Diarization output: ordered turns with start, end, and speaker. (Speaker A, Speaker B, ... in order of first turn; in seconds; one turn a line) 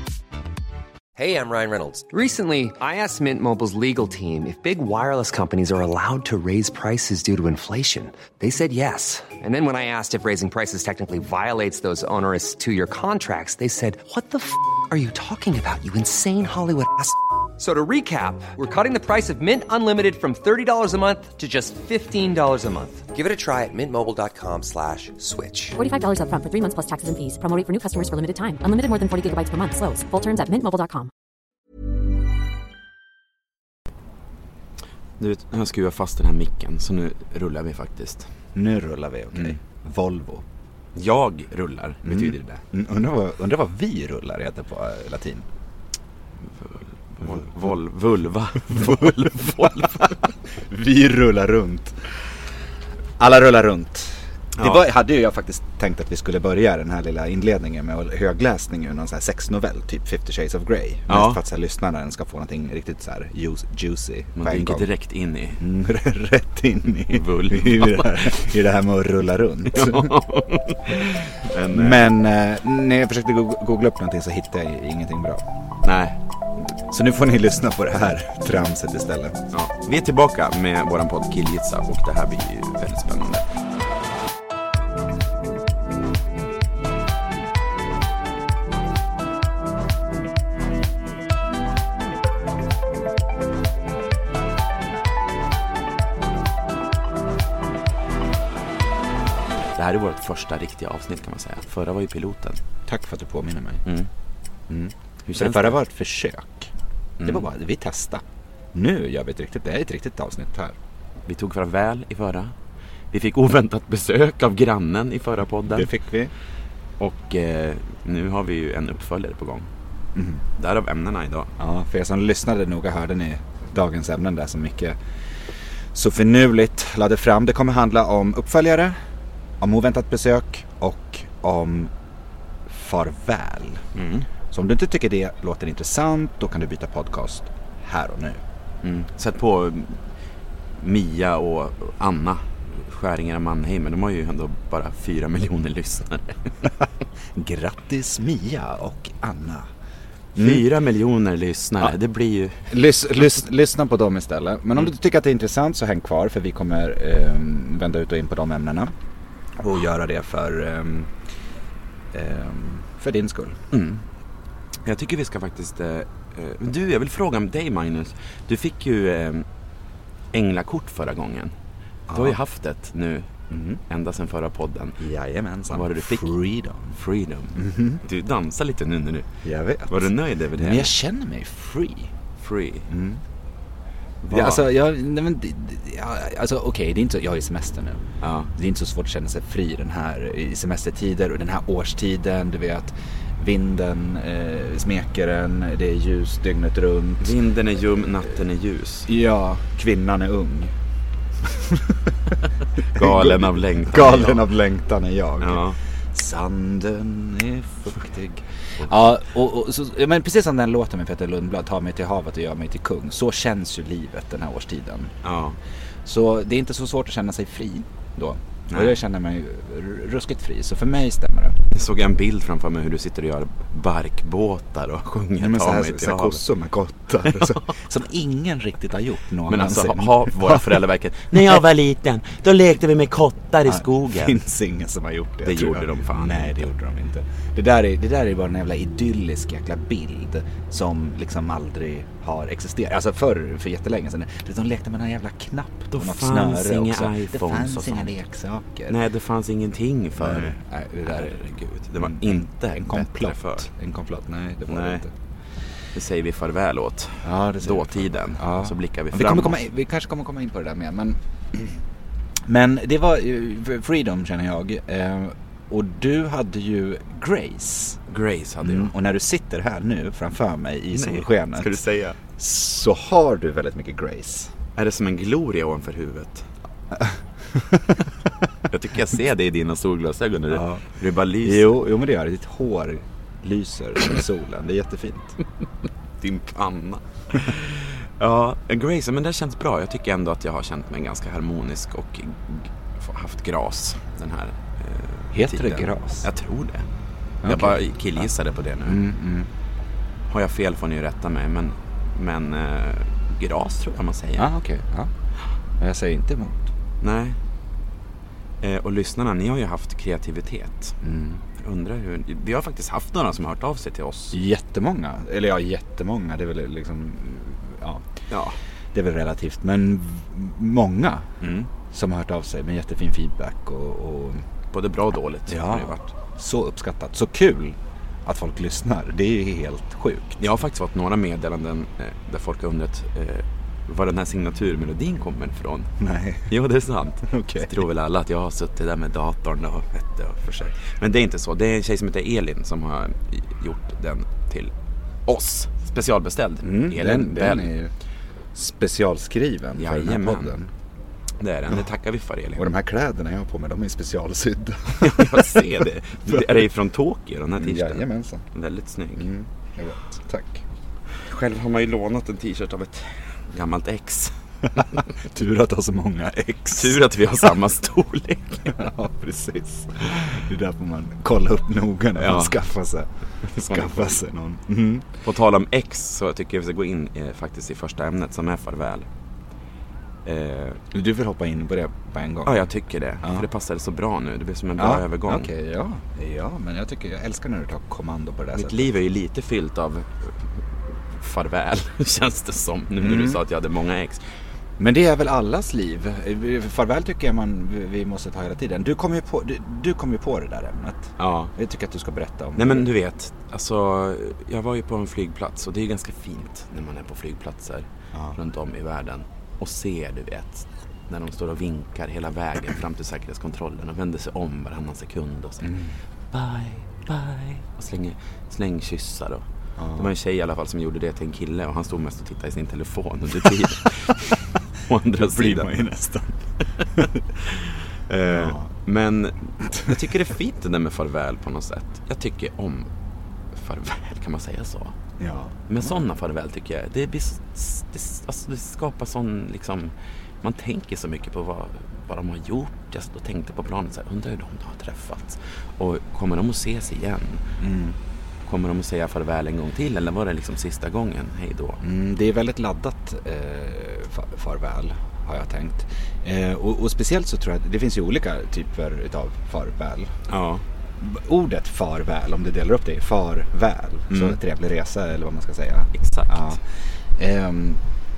Speaker A: 1.2-25.8
Speaker B: 25.8-31.1
Speaker C: 35.2-38.3
Speaker D: 38.5-40.5
Speaker C: 41.0-42.6
Speaker D: 42.0-45.5
Speaker C: 46.6-50.2
Speaker D: 48.7-49.3
Speaker D: 50.7-52.0
Speaker D: 53.2-64.9
Speaker C: 54.6-54.8
Speaker C: 61.1-61.4
Speaker C: 64.4-65.6
Speaker D: 65.6-70.2
Speaker C: 67.1-68.4
Speaker C: 69.7-72.1
Speaker D: 71.7-75.4
Speaker C: 75.8-76.2
Speaker D: 76.9-79.4
Speaker C: 79.5-83.5
Speaker C: 99.8-102.6
Speaker D: 102.9-103.9
Speaker D: 104.7-110.8
Speaker C: 105.3-105.8
Speaker C: 107.2-107.5
Speaker C: 111.3-112.5
Speaker C: 113.1-115.9
Speaker D: 115.7-116.3
Speaker C: 117.0-119.7
Speaker D: 120.2-120.4
Speaker C: 120.6-121.5
Speaker D: 121.6-125.0
Speaker D: 125.9-129.0
Speaker D: 129.6-131.9
Speaker D: 132.7-133.8
Speaker C: 133.9-134.3
Speaker D: 134.5-138.4
Speaker C: 138.8-140.0
Speaker C: 140.8-146.5
Speaker D: 147.3-149.7
Speaker D: 150.3-150.7
Speaker C: 150.4-152.7
Speaker D: 152.7-158.9
Speaker D: 159.6-161.1
Speaker D: 162.1-163.6
Speaker C: 163.7-164.0
Speaker C: 164.8-169.5
Speaker C: 170.3-171.5
Speaker D: 172.1-172.4
Speaker C: 172.1-173.3
Speaker D: 173.5-173.8
Speaker C: 173.9-175.0
Speaker D: 175.0-177.0
Speaker C: 175.7-176.3
Speaker C: 176.9-179.3
Speaker D: 177.6-178.0
Speaker D: 179.4-182.1
Speaker C: 179.9-180.9
Speaker C: 182.4-182.9
Speaker D: 182.9-183.2
Speaker C: 184.2-184.7
Speaker D: 184.3-197.3
Speaker C: 188.2-188.5
Speaker C: 197.2-199.1
Speaker D: 199.1-200.7
Speaker D: 201.4-202.1
Speaker C: 202.9-204.5
Speaker D: 202.9-215.2
Speaker C: 205.4-205.8
Speaker C: 215.2-215.6
Speaker D: 216.1-221.6
Speaker C: 218.7-219.0
Speaker C: 221.7-226.4
Speaker D: 225.4-231.6
Speaker C: 229.5-234.4
Speaker D: 233.7-249.0
Speaker C: 235.4-236.7
Speaker C: 245.9-248.2
Speaker C: 248.9-253.7
Speaker D: 250.2-255.1
Speaker C: 254.7-255.1
Speaker C: 255.9-259.6
Speaker D: 257.2-261.8
Speaker D: 262.4-268.0
Speaker C: 268.1-268.9
Speaker D: 268.6-271.8
Speaker C: 270.9-272.2
Speaker D: 272.4-274.5
Speaker C: 274.8-276.5
Speaker D: 276.9-278.0
Speaker C: 278.7-281.7
Speaker D: 280.5-280.8
Speaker D: 281.4-285.4
Speaker C: 286.2-296.9
Speaker D: 295.3-296.3
Speaker D: 297.4-298.3
Speaker C: 297.4-299.0
Speaker D: 298.8-299.5
Speaker C: 300.3-304.5
Speaker D: 304.4-305.1
Speaker D: 305.8-306.7
Speaker C: 307.0-307.4
Speaker C: 308.6-311.0
Speaker D: 311.0-311.4
Speaker C: 311.6-314.4
Speaker D: 314.3-318.1
Speaker C: 318.3-318.6
Speaker D: 318.9-324.5
Speaker C: 321.4-321.7
Speaker C: 324.7-326.1
Speaker D: 325.5-330.4
Speaker C: 330.4-335.9
Speaker D: 336.0-336.5
Speaker C: 336.5-344.7
Speaker D: 337.3-337.8
Speaker C: 345.3-347.7
Speaker D: 346.6-347.9
Speaker D: 348.5-350.7
Speaker C: 349.8-350.6
Speaker C: 351.4-352.6
Speaker D: 352.6-355.6
Speaker C: 355.0-359.3
Speaker D: 356.3-356.7
Speaker D: 357.6-358.4
Speaker D: 359.2-360.6
Speaker C: 361.2-364.3
Speaker D: 365.2-367.5
Speaker C: 366.7-368.9
Speaker D: 368.7-375.1
Speaker C: 372.2-372.6
Speaker C: 373.5-374.2
Speaker C: 375.2-379.1
Speaker C: 380.2-380.8
Speaker D: 380.9-382.7
Speaker C: 382.4-385.5
Speaker D: 383.2-383.5
Speaker D: 384.8-388.9
Speaker C: 388.5-390.4
Speaker C: 391.2-394.2
Speaker D: 393.0-393.4
Speaker D: 394.8-402.9
Speaker C: 401.2-401.5
Speaker C: 402.6-415.7
Speaker D: 408.1-408.4
Speaker D: 415.6-416.0
Speaker C: 416.3-419.4
Speaker D: 419.8-420.1
Speaker C: 420.0-424.2
Speaker C: 424.9-425.7
Speaker D: 425.1-427.2
Speaker C: 426.8-432.9
Speaker D: 428.3-428.7
Speaker D: 429.7-430.0
Speaker C: 433.5-435.0
Speaker D: 435.2-436.0
Speaker C: 435.7-447.6
Speaker D: 447.6-448.0
Speaker C: 448.4-451.8
Speaker D: 451.8-460.2
Speaker C: 460.3-460.6
Speaker D: 461.0-466.6
Speaker C: 464.1-464.4
Speaker C: 465.9-466.6
Speaker D: 467.2-467.8